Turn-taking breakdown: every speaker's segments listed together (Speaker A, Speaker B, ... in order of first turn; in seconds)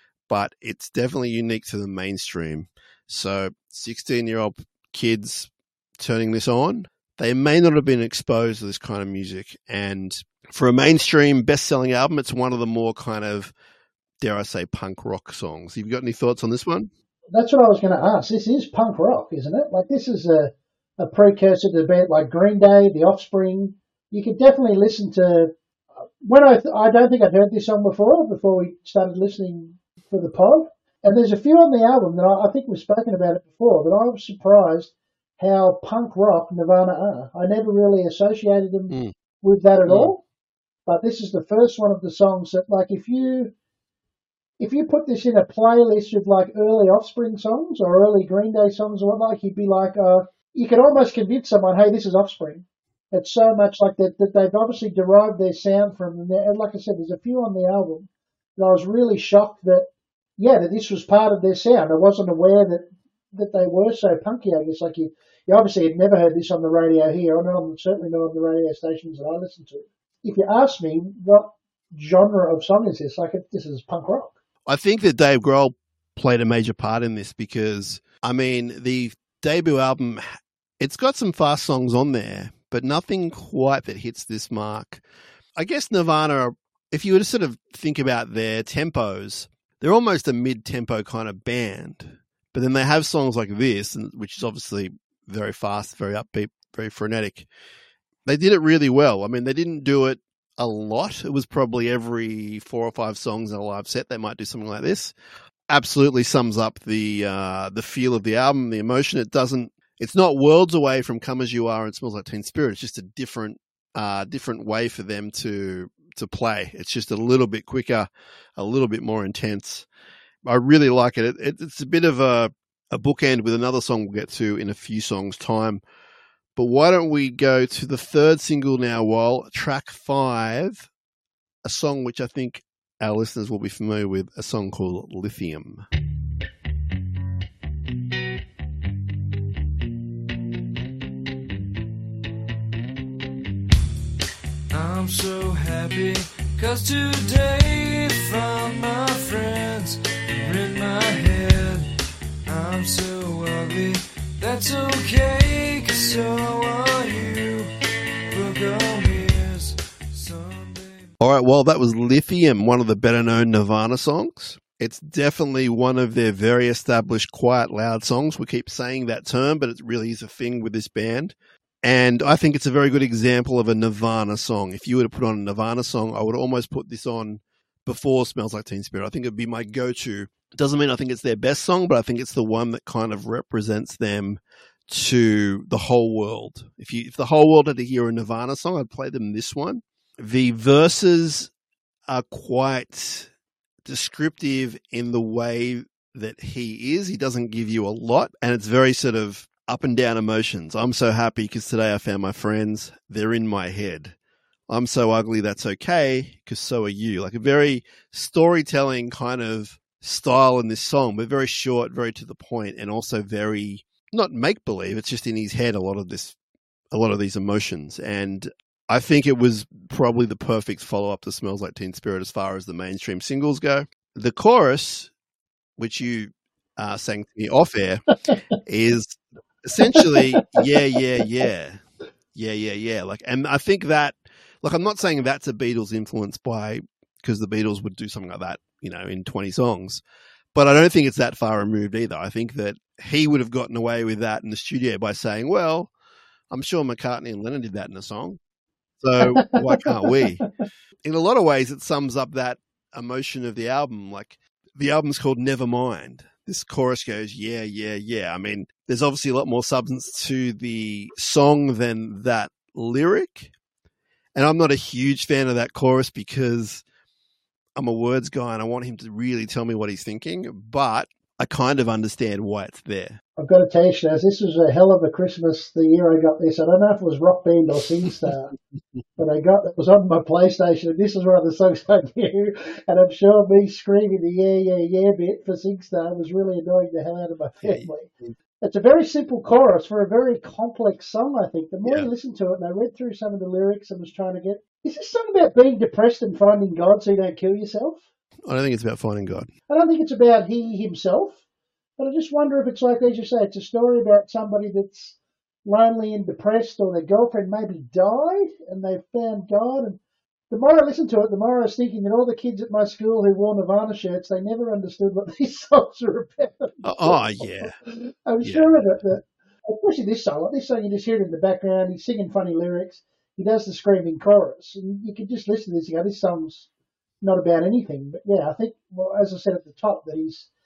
Speaker A: 0.3-13.5, 14.2-16.9, 39.9-40.1, 74.7-85.0, 85.6-97.5, 98.2-105.1, 105.7-119.9, 120.4-125.8, 126.5-130.9, 131.6-135.8, 161.2-191.5, 192.1-193.3, 193.8-204.2, 204.7-216.4, 216.9-225.1, 225.8-228.0, 228.6-231.8, 232.3-240.0, 240.5-245.9, 246.5-248.4, 249.0-250.4, 251.0-263.5, 264.3-266.8, 267.8-273.2, 287.6-288.3, 298.5-299.5, 316.8-317.7, 318.4-318.8
Speaker B: 17.3-25.5, 26.2-40.2, 40.9-43.5, 44.6-59.9, 60.4-74.3, 229.8-230.7, 249.2-250.4, 273.4-278.5, 279.2-298.0, 299.7-301.4, 302.0-310.0, 310.5-326.7, 327.2-330.5
Speaker C: 144.7-151.9, 152.4-157.7, 158.3-161.1